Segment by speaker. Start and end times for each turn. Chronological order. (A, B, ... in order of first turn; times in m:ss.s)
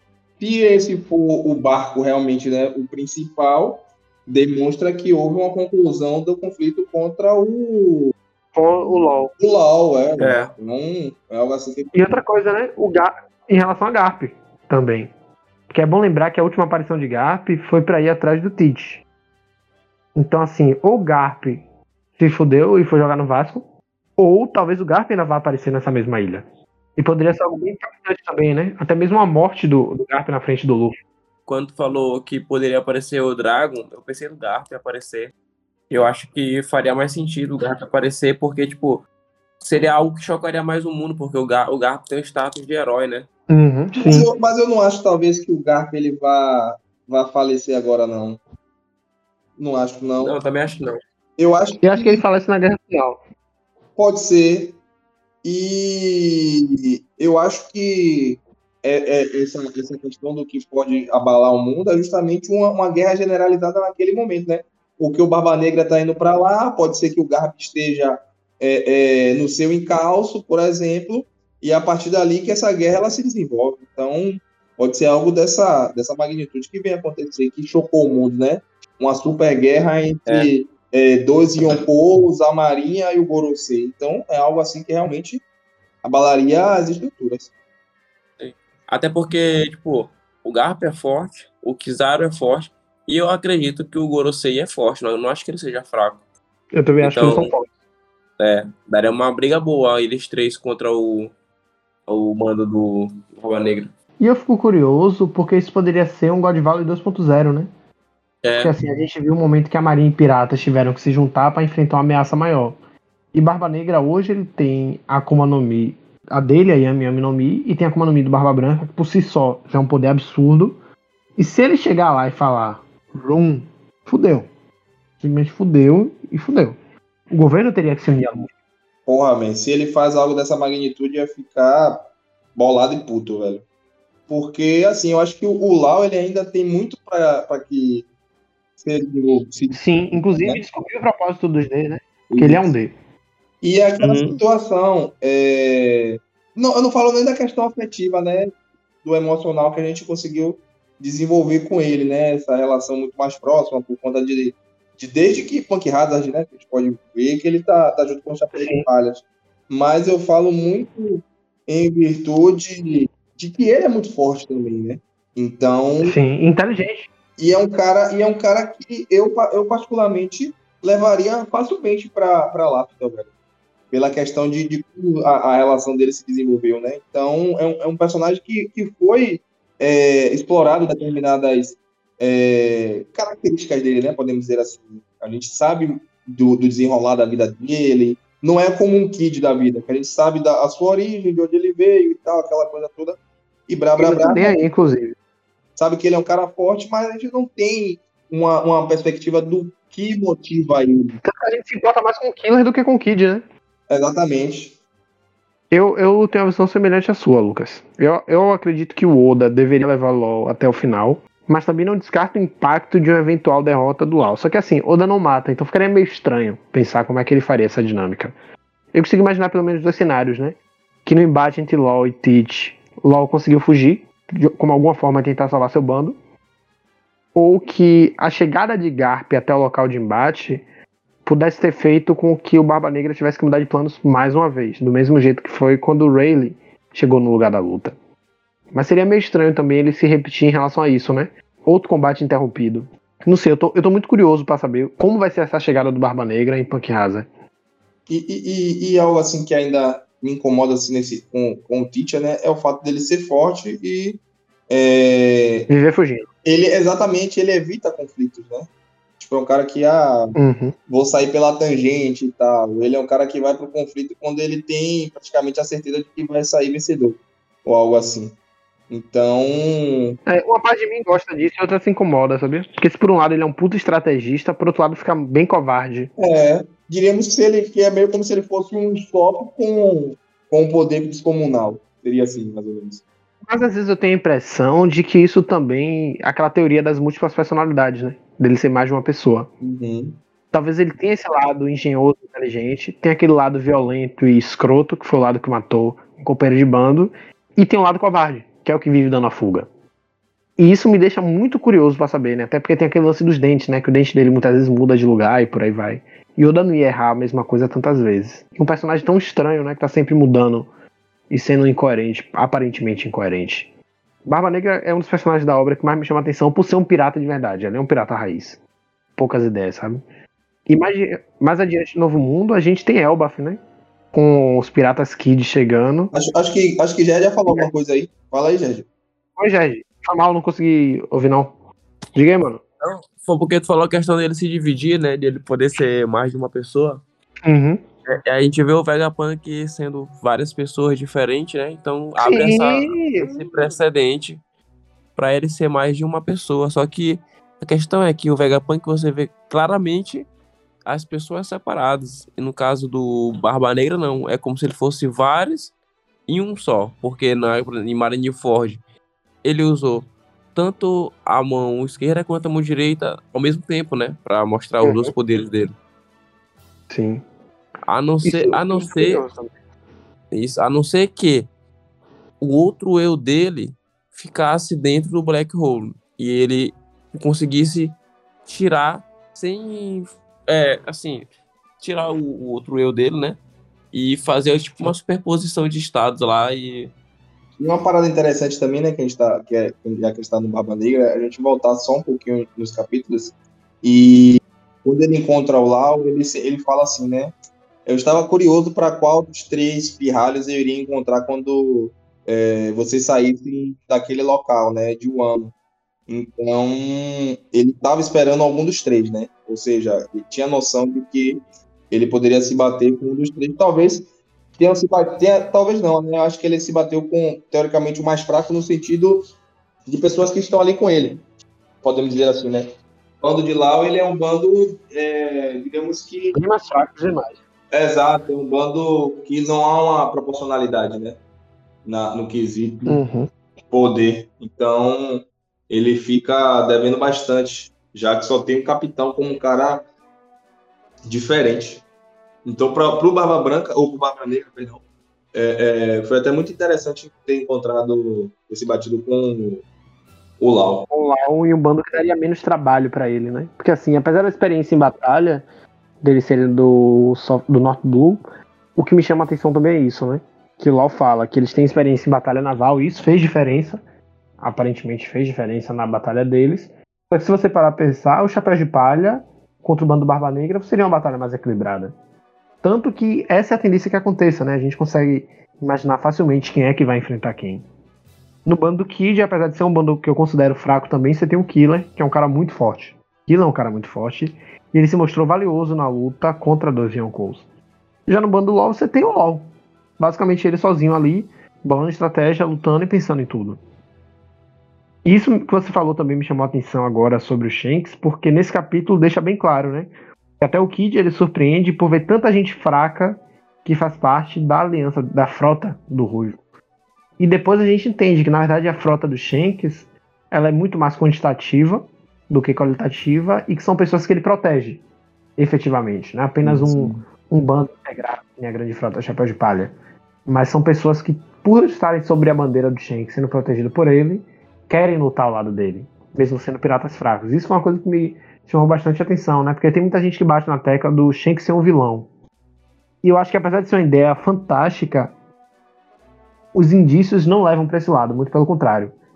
0:00.4-0:08.1 A
0:08.6-0:09.3 B
0:09.4-0:12.2 A
0:10.2-0:10.5 C
0:11.9-0:15.1 B
0:15.7-0:19.0 B
0:20.2-0:21.6 B
0:22.2-0:23.7 B
0:24.2-0:26.4 B
0:27.0-0:31.0 B
0:31.5-0:35.3 C
0:35.9-0:39.0 C
0:39.6-0:43.3 C
0:43.5-0:44.3 B
0:43.9-0:48.4 A
0:49.6-0:50.4 A
0:50.2-0:51.0 C
0:51.4-0:52.2 A
0:51.8-0:53.2 B
0:54.0-0:54.8 A
0:55.4-1:25.4 A
1:26.0-1:27.5 A
1:28.4-1:36.2 C
1:36.7-1:37.7 B
1:37.0-1:37.5 C
1:38.4-1:41.4 C
1:42.1-1:43.9 C
1:44.2-1:47.7 B
1:48.4-1:48.7 C
1:48.6-1:52.8 B
1:53.3-2:00.8 B
2:01.4-2:04.5 B
2:05.2-2:06.8 B
2:07.3-2:08.5 B
2:09.1-2:13.6 A
2:14.3-2:18.1 A
2:18.8-2:19.8 A
2:19.7-2:22.9 B
2:22.3-2:22.7 A
2:23.6-2:28.5 A
2:29.0-2:46.2 A
2:38.5-2:38.9 B
2:46.0-2:47.1 B
2:47.4-2:53.3 A
2:53.9-3:14.6 A
3:14.0-3:15.2 B
3:15.8-3:21.2 A
3:21.2-3:23.4 B
3:23.9-3:24.8 A
3:25.7-3:38.3 B
3:38.9-3:46.2 B
3:47.4-3:50.6 B
3:51.2-3:58.0 B
3:58.7-4:07.3 B
4:08.1-4:15.7 A
4:15.7-4:16.3 B
4:16.4-4:20.4 A
4:20.4-4:20.8 B
4:20.9-4:28.4 A
4:28.9-4:30.2 A
4:30.3-4:36.1 B
4:36.2-4:43.0 A
4:43.5-4:49.5 B
4:49.6-4:50.2 A
4:50.5-4:59.7 B
5:00.6-5:10.7 B
5:11.3-5:13.7 B
5:14.3-5:18.6 B
5:19.2-5:20.0 B
5:20.7-5:23.6 B
5:24.1-5:26.1 B
5:26.1-5:28.9 A
5:29.4-5:31.5 B
5:32.2-5:32.6 B
5:32.8-5:37.0 C
5:37.4-5:37.8 B
5:38.1-5:44.4 C
5:42.2-5:43.3 B
5:45.2-5:50.3 C
5:50.8-5:55.8 C
5:56.3-5:58.8 C
5:59.4-6:05.8 C
6:04.8-6:05.1 B
6:06.9-6:07.2 B
6:07.9-6:09.3 C
6:08.2-6:09.6 B
6:10.3-6:11.5 C
6:12.4-6:21.3 C
6:21.8-6:23.4 C
6:23.9-6:26.9 C
6:27.6-6:37.3 A
6:37.9-6:45.5 A
6:46.1-6:59.2 A
6:59.9-7:01.2 A
7:01.8-7:02.7 A
7:03.2-7:06.4 A
7:06.3-7:07.4 B
7:07.7-7:11.2 A
7:11.8-7:13.0 A
7:12.9-7:13.3 B
7:13.7-7:19.8 A
7:21.1-7:21.8 A
7:22.4-7:24.8 A
7:25.3-7:29.6 A
7:30.4-7:30.9 A
7:30.9-7:35.5 B
7:36.0-7:38.2 B
7:38.8-7:43.8 B
7:44.4-7:52.0 B
7:52.6-7:57.7 B
7:58.5-8:07.5 B
8:08.1-8:13.6 B
8:15.0-8:26.4 B
8:27.2-8:34.8 B
8:35.4-8:39.7 B
8:36.4-8:37.0 A
8:40.3-8:52.1 B
8:53.0-8:55.2 B
8:56.5-8:59.0 B